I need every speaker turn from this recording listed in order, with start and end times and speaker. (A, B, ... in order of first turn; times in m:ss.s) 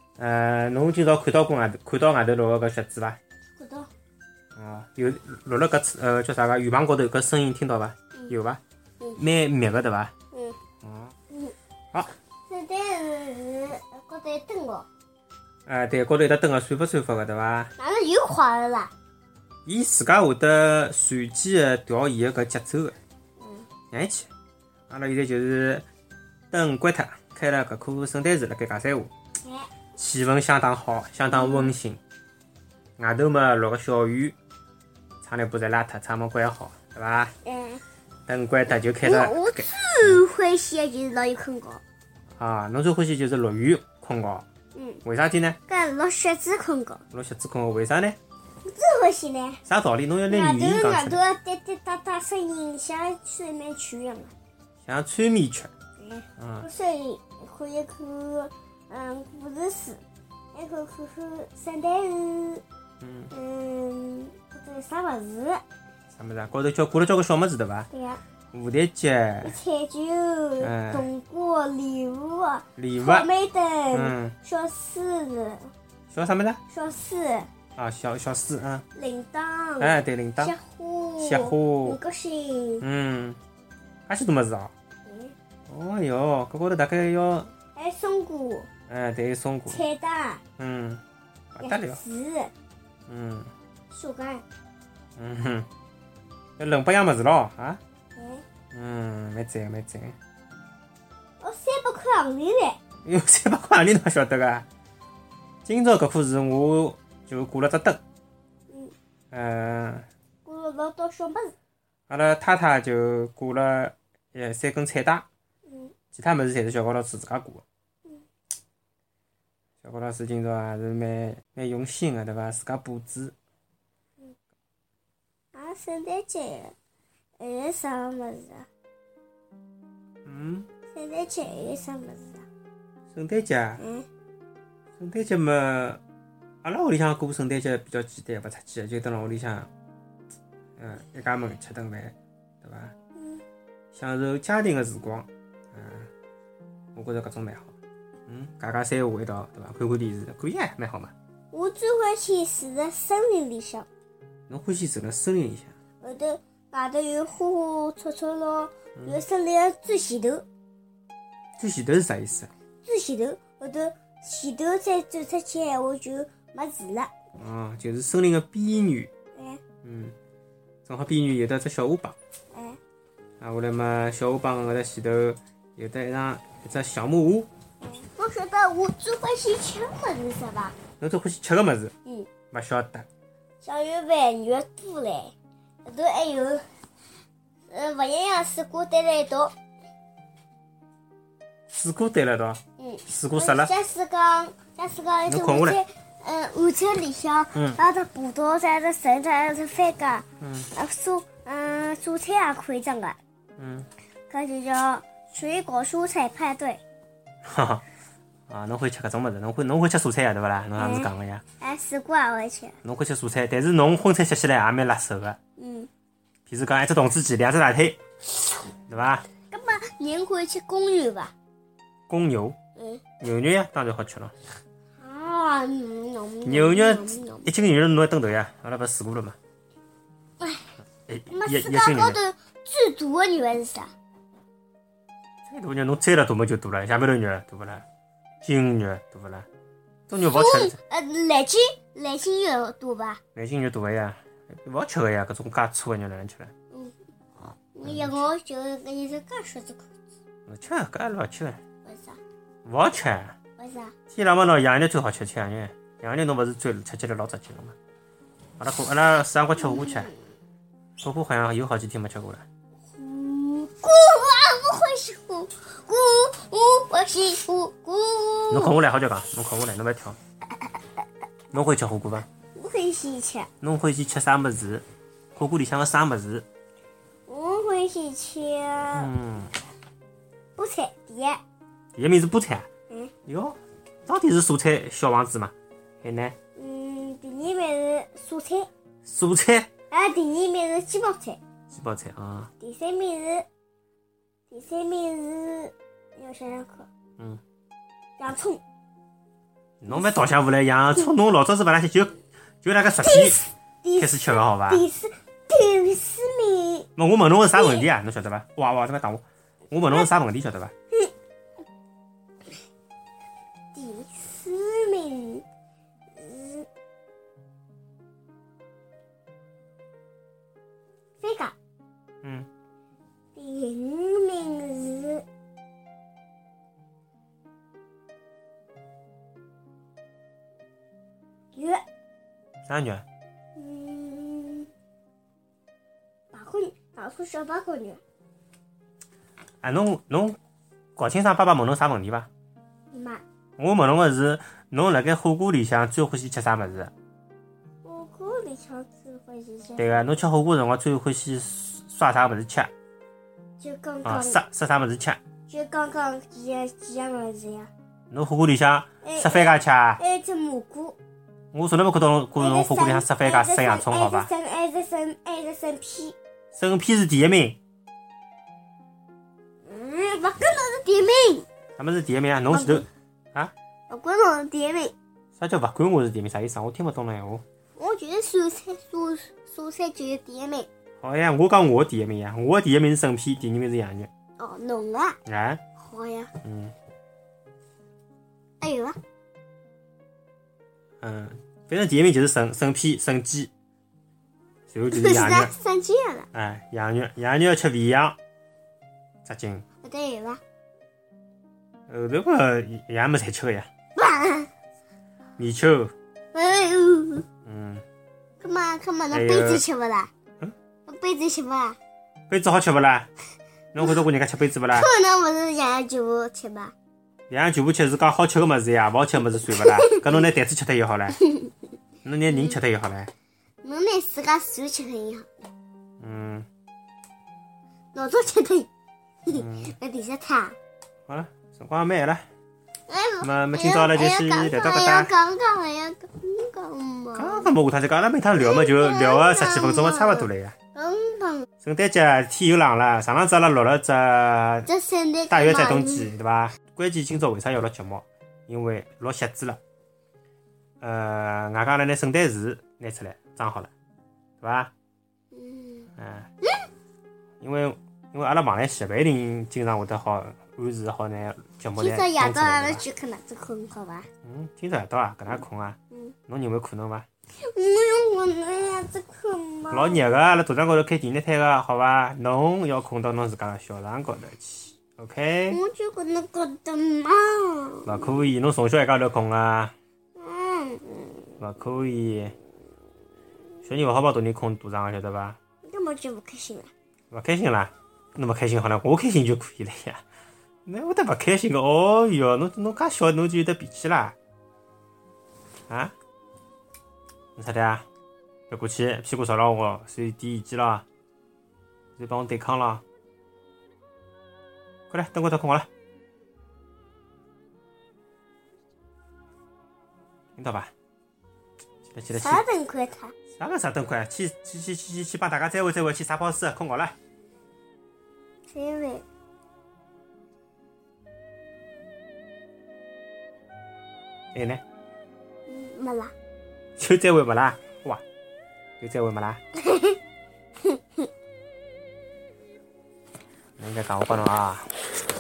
0:00.2-0:03.2 A
0:03.6-0:03.9 B
0:04.6-0:08.6 A
0:09.2-0:10.1 A
0:10.3-0:10.6 B
0:10.8-0:11.1 A
0:12.5-0:14.9 B
0:15.7-0:17.7 A
0:17.8-0:18.9 B
0:19.7-0:23.0 A
0:23.4-0:23.7 B
0:23.9-0:24.3 A
0:24.9-0:25.8 A
0:26.5-0:29.1 A
0:29.4-0:29.7 B
0:30.0-0:32.0 A
0:31.3-0:31.7 B
0:33.0-0:34.4 A
0:35.2-0:37.3 A
0:37.4-0:37.8 B
0:38.3-0:40.2 A
0:39.0-0:41.8 B
0:42.4-0:44.4 A
0:44.7-0:45.0 B
0:45.0-0:45.6 A
0:45.7-0:47.0 B
0:47.1-0:48.2 A
0:48.6-0:49.6 B
0:49.7-0:51.2 A
0:50.3-0:54.3 B
0:54.8-0:55.7 A
0:56.0-1:00.0 B
0:56.4-0:56.7 A
1:00.5-1:02.6 B
1:03.0-1:03.3 A
1:03.3-1:05.6 B
1:06.1-1:07.9 A
1:07.9-1:08.2 B
1:08.5-1:09.6 A
1:09.4-1:15.7 B
1:10.6-1:11.1 A
1:12.8-1:13.3 A
1:13.9-1:14.4 A
1:16.1-1:16.6 A
1:16.7-1:17.5 B
1:17.8-1:18.8 A
1:19.0-1:22.8 B
1:19.8-1:20.5 A
1:21.2-1:22.0 A
1:22.8-1:23.4 A
1:24.1-1:24.7 A
1:25.0-1:25.3 B
1:25.7-1:27.5 A
1:27.8-1:28.7 B
1:28.9-1:29.8 A
1:29.7-1:30.4 B
1:30.6-1:31.0 A
1:31.5-1:32.0 A
1:31.6-1:32.5 B
1:33.1-1:33.5 A
1:33.9-1:34.4 B
1:35.2-1:35.7 A
1:36.6-1:37.8 A
1:38.2-1:38.4 B
1:38.7-1:40.2 A
1:41.4-1:42.8 B
1:43.0-1:44.7 A
1:45.7-1:48.0 A
1:49.3-1:50.1 A
1:50.4-1:51.5 B
1:52.1-1:55.3 A
1:55.7-1:55.9 B
1:56.1-1:57.6 A
1:59.8-2:03.3 A
2:05.5-2:06.8 B
2:07.4-2:08.7 B
2:10.2-2:10.7 A
2:10.9-2:12.4 B
2:13.1-2:13.8 A
2:13.8-2:14.1 B
2:15.0-2:16.0 A
2:16.6-2:19.7 A
2:20.8-2:22.9 A
2:23.9-2:26.1 A
2:27.0-2:27.8 A
2:28.3-2:31.1 A
2:31.5-2:33.9 B
2:34.5-2:35.8 A
2:36.0-2:40.4 B
2:41.6-2:42.5 A
2:42.8-2:47.1 B
2:47.4-2:49.1 A
2:49.4-2:49.6 B
2:49.8-2:50.2 A
2:50.8-2:52.2 A
2:52.5-2:52.8 B
2:53.4-2:57.5 A
2:57.8-3:00.8 B
3:01.0-3:01.9 A
3:02.5-3:03.1 A
3:03.6-3:05.3 B
3:05.8-3:06.6 B
3:07.7-3:09.5 B
3:11.7-3:13.7 A
3:12.8-3:23.2 B
3:15.3-3:15.8 A
3:20.4-3:20.7 A
3:23.6-3:23.9 A
3:24.3-3:26.8 B
3:27.4-3:27.8 A
3:28.5-3:31.4 A
3:30.8-3:32.8 B
3:32.8-3:35.4 A
3:35.6-3:35.9 B
3:36.5-3:38.0 A
3:38.9-3:39.3 A
3:39.5-3:41.3 B
3:42.1-3:42.6 A
3:42.8-3:43.0 B
3:43.2-3:44.3 A
3:45.0-3:47.5 B
3:46.4-3:49.4 A
3:51.1-3:52.2 A
3:51.3-3:53.9 B
3:55.5-3:57.8 A
3:58.4-3:59.5 A
4:00.1-4:00.8 A
4:00.2-4:03.2 B
4:03.4-4:06.5 A
4:07.7-4:09.9 B
4:07.8-4:08.1 A
4:10.5-4:11.6 A
4:11.8-4:12.2 B
4:12.6-4:13.4 A
4:13.6-4:13.9 B
4:14.1-4:17.8 A
4:18.6-4:20.1 A
4:19.6-4:20.1 B
4:21.0-4:22.4 A
4:22.9-4:28.8 B
4:28.5-4:30.2 A
4:31.5-4:32.3 A
4:32.6-4:33.5 B
4:33.6-4:36.4 A
4:37.3-4:39.1 B
4:38.9-4:39.5 A
4:40.6-4:41.4 B
4:42.0-4:42.7 A
4:43.3-4:46.4 A
4:46.6-4:48.7 B
4:49.0-4:49.7 A
4:49.9-4:51.4 B
4:51.7-4:52.5 A
4:52.6-4:53.5 B
4:54.5-4:56.9 B
4:58.2-4:58.6 B
4:59.8-5:03.4 A
5:03.0-5:06.9 B
5:04.0-5:04.8 A
5:07.0-5:10.7 A
5:07.6-5:07.9 B
5:13.7-5:15.4 B
5:16.2-5:16.7 B
5:21.2-5:21.6 B
5:22.2-5:22.5 A
5:23.4-5:25.2 B
5:31.5-5:31.8 B
5:32.7-5:33.0 A
5:33.6-5:34.7 B
5:36.3-5:38.0 B
5:39.6-5:40.4 A
5:41.0-5:42.3 A
5:42.9-5:43.2 B
5:43.6-5:46.9 A
5:47.8-5:50.0 B
5:49.8-5:52.7 A
5:53.6-5:54.4 B
5:54.0-5:55.2 A
5:55.5-5:57.7 B
5:58.1-6:00.0 A
5:59.0-6:01.0 B
6:01.5-6:04.3 A
6:02.4-6:06.2 B
6:06.6-6:07.6 A
6:09.7-6:11.5 B
6:11.8-6:13.5 A
6:12.5-6:12.9 B
6:13.9-6:15.0 B
6:15.4-6:17.4 A
6:17.8-6:20.7 B
6:21.0-6:24.1 A
6:24.4-6:25.2 B
6:25.3-6:25.6 A
6:25.8-6:26.3 B
6:26.4-6:26.8 A
6:28.6-6:29.0 B
6:31.0-6:33.5 A
6:34.7-6:35.5 A
6:34.9-6:36.3 B
6:36.3-6:38.2 A
6:39.2-6:39.6 A
6:39.8-6:40.4 B
6:41.9-6:43.7 A
6:44.0-6:44.5 B
6:45.4-6:45.9 A
6:46.3-6:47.2 B
6:47.4-6:47.8 A
6:48.4-6:50.1 B
6:49.1-6:49.6 A
6:50.9-6:51.8 B
6:52.3-6:53.1 A
6:53.7-6:54.9 A
6:54.7-6:56.7 B
6:57.3-7:01.2 A
6:59.5-7:00.1 B
7:01.2-7:01.5 B
7:02.0-7:03.1 A
7:02.3-7:02.6 B
7:03.6-7:05.3 B
7:06.0-7:06.5 A
7:07.9-7:08.7 B
7:09.3-7:10.6 B
7:09.3-7:09.7 A
7:11.1-7:12.3 A
7:12.9-7:17.5 B
7:13.2-7:15.1 A
7:17.2-7:20.6 A
7:18.3-7:21.5 B
7:21.6-7:24.7 A
7:24.7-7:26.1 B
7:25.3-7:29.6 A
7:30.8-7:33.7 A
7:34.4-7:34.7 A
7:35.3-7:35.9 B
7:36.0-7:36.3 A
7:37.4-7:42.8 A
7:41.8-7:44.1 B
7:44.2-7:45.8 A
7:46.3-7:47.1 A
7:47.4-7:50.1 B
7:49.7-7:55.6 A
7:55.5-7:58.2 B
7:57.8-7:59.7 A
8:00.2-8:01.1 B
8:01.4-8:02.4 A
8:03.6-8:05.4 A
8:05.6-8:06.7 B
8:07.1-8:10.0 A
8:10.7-8:14.2 A
8:17.4-8:17.9 A
8:18.5-8:20.8 A
8:22.0-8:22.8 A
8:24.9-8:25.7 A
8:30.4-8:30.7 A
8:31.9-8:32.4 A
8:32.1-8:33.1 B
8:33.4-8:37.0 A
8:38.5-8:39.0 B
8:44.3-8:44.6 A
8:45.5-8:46.1 B
8:46.8-8:48.0 A
8:48.8-8:49.4 A
8:49.6-8:50.0 B
8:53.6-8:54.7 A